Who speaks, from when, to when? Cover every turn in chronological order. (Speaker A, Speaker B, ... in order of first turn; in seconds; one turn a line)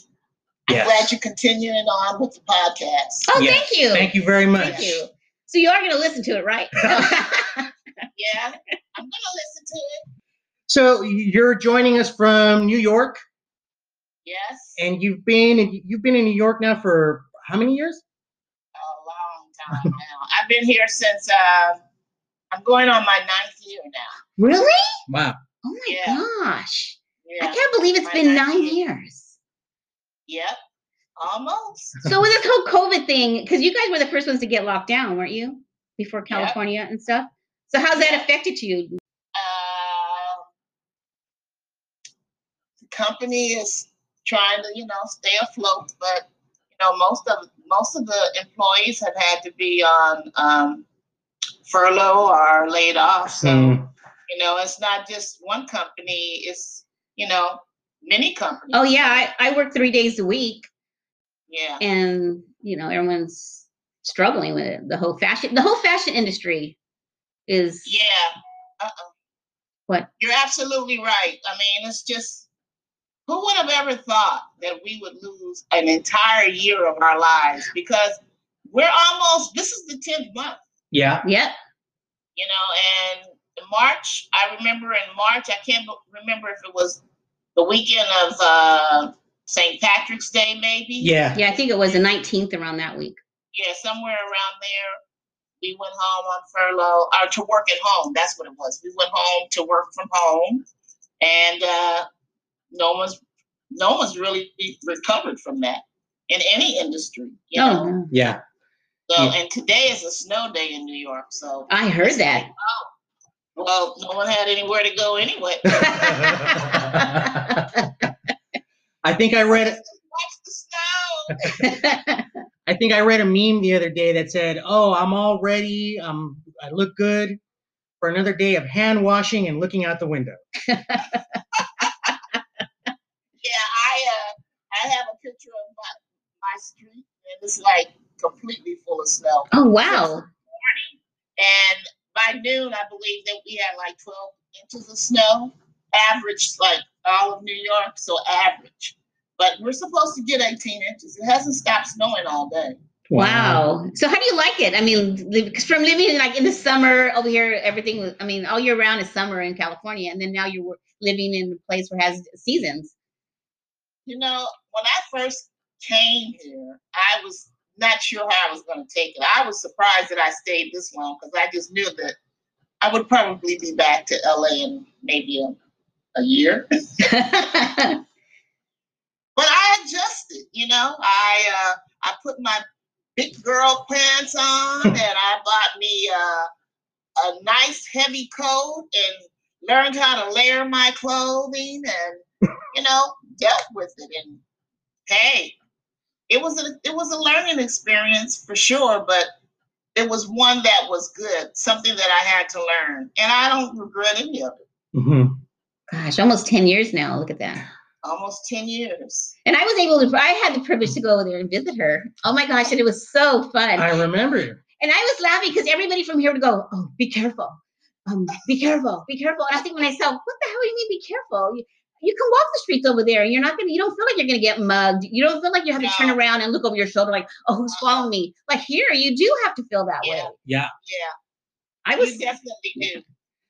Speaker A: 0.7-1.1
Speaker B: 0.7-3.3
Speaker C: 3.3-7.7
Speaker A: 3.4-4.8
Speaker B: 4.6-5.0
Speaker B: 8.2-10.0
Speaker A: 10.7-13.2
Speaker B: 14.2-14.8
Speaker A: 14.8-18.0
Speaker B: 18.8-21.8
Speaker B: 22.5-24.1
Speaker C: 24.4-25.0
Speaker A: 25.1-25.4
Speaker C: 25.6-29.4
Speaker B: 25.9-26.2
Speaker B: 27.2-28.8
Speaker B: 30.3-30.6
Speaker B: 31.2-32.0
Speaker C: 32.0-39.0
Speaker B: 36.3-36.6
Speaker B: 37.9-38.3
Speaker B: 39.4-40.5
Speaker B: 42.9-50.9
Speaker B: 51.7-53.8
Speaker A: 53.4-53.9
Speaker B: 54.3-59.2
Speaker C: 58.7-60.7
Speaker B: 61.5-61.8
Speaker C: 61.8-66.8
Speaker C: 67.5-67.9
Speaker B: 67.8-69.1
Speaker B: 70.2-72.5
Speaker B: 73.3-80.6
Speaker A: 80.9-81.2
Speaker C: 81.2-81.5
Speaker B: 82.4-87.0
Speaker B: 87.6-91.6
Speaker A: 91.0-91.4
Speaker C: 91.3-93.2
Speaker B: 93.5-95.0
Speaker B: 95.6-100.6
Speaker B: 101.2-102.1
Speaker B: 102.7-103.2
Speaker B: 103.7-107.9
Speaker C: 107.6-108.1
Speaker A: 108.1-108.4
Speaker B: 109.1-112.9
Speaker C: 111.7-112.5
Speaker B: 113.6-116.0
Speaker A: 115.7-117.7
Speaker C: 115.8-117.9
Speaker A: 119.0-119.8
Speaker B: 119.5-121.5
Speaker C: 121.5-122.3
Speaker A: 122.7-127.4
Speaker A: 128.0-130.4
Speaker C: 130.7-131.4
Speaker B: 133.4-152.8
Speaker C: 139.5-140.2
Speaker A: 153.1-153.6
Speaker C: 153.2-162.9
Speaker B: 164.1-172.2
Speaker B: 172.8-175.6
Speaker B: 176.2-177.1
Speaker C: 177.0-178.0
Speaker B: 179.4-182.6
Speaker B: 183.2-186.5
Speaker B: 187.2-194.4
Speaker B: 195.1-195.6
Speaker B: 196.3-199.3
Speaker B: 199.9-204.6
Speaker A: 204.9-205.4
Speaker C: 205.9-207.7
Speaker B: 208.0-209.3
Speaker C: 209.4-213.9
Speaker A: 213.8-214.6
Speaker C: 214.8-230.3
Speaker B: 225.8-226.2
Speaker B: 227.7-228.1
Speaker B: 230.0-231.2
Speaker A: 230.4-230.7
Speaker C: 231.9-232.3
Speaker B: 232.0-233.0